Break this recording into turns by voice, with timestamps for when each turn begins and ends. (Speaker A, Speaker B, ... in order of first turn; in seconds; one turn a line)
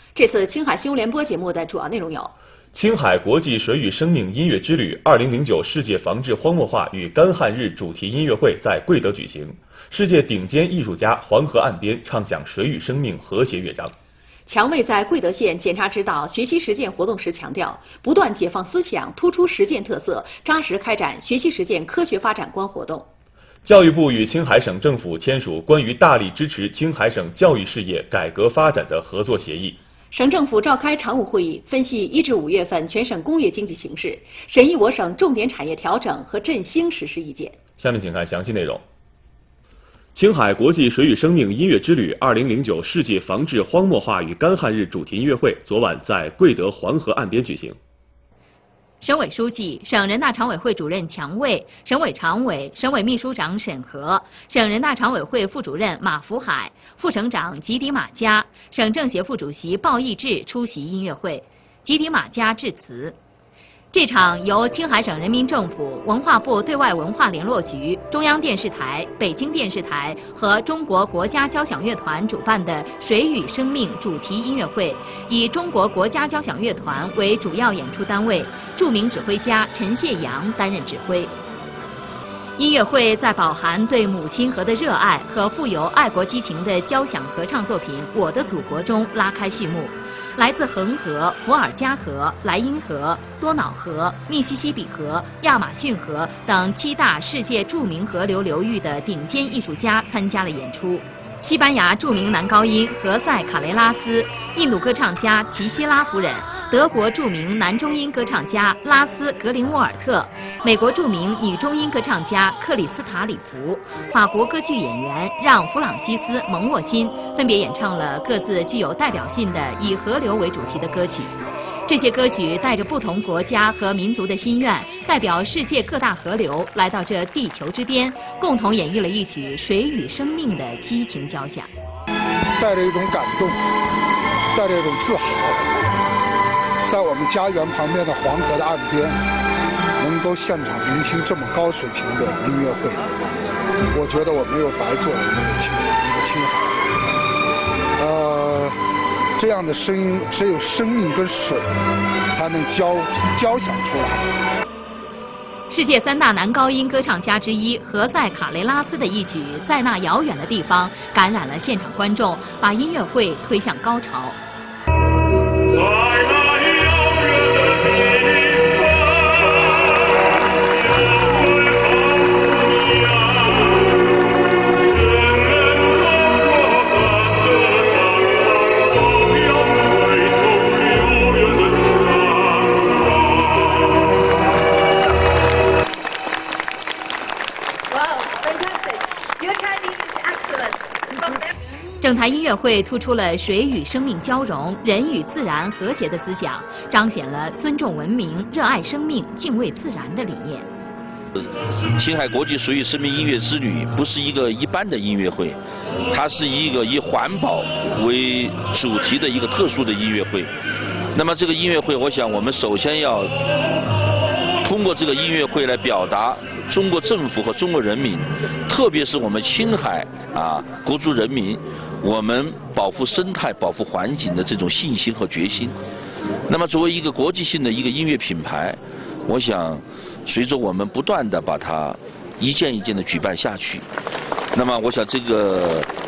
Speaker A: 0.1-2.3
Speaker B: 2.7-13.9
Speaker A: 14.5-23.1
Speaker B: 23.6-29.8
Speaker A: 30.1-37.6
Speaker B: 37.8-38.8
Speaker B: 40.1-47.8
Speaker C: 49.0-63.1
Speaker C: 63.9-81.3
Speaker C: 82.6-131.7
Speaker D: 132.6-133.6
Speaker D: 134.5-135.6
Speaker D: 136.8-139.2
Speaker D: 140.0-143.0
Speaker D: 143.9-146.8
Speaker D: 148.0-148.8
Speaker D: 149.4-151.7
Speaker D: 152.3-154.2
Speaker C: 155.7-164.4
Speaker C: 192.0-200.7
Speaker E: 201.9-205.6
Speaker E: 206.1-210.5
Speaker E: 211.1-213.3
Speaker E: 214.6-225.8
Speaker E: 226.5-233.8
Speaker E: 234.5-235.9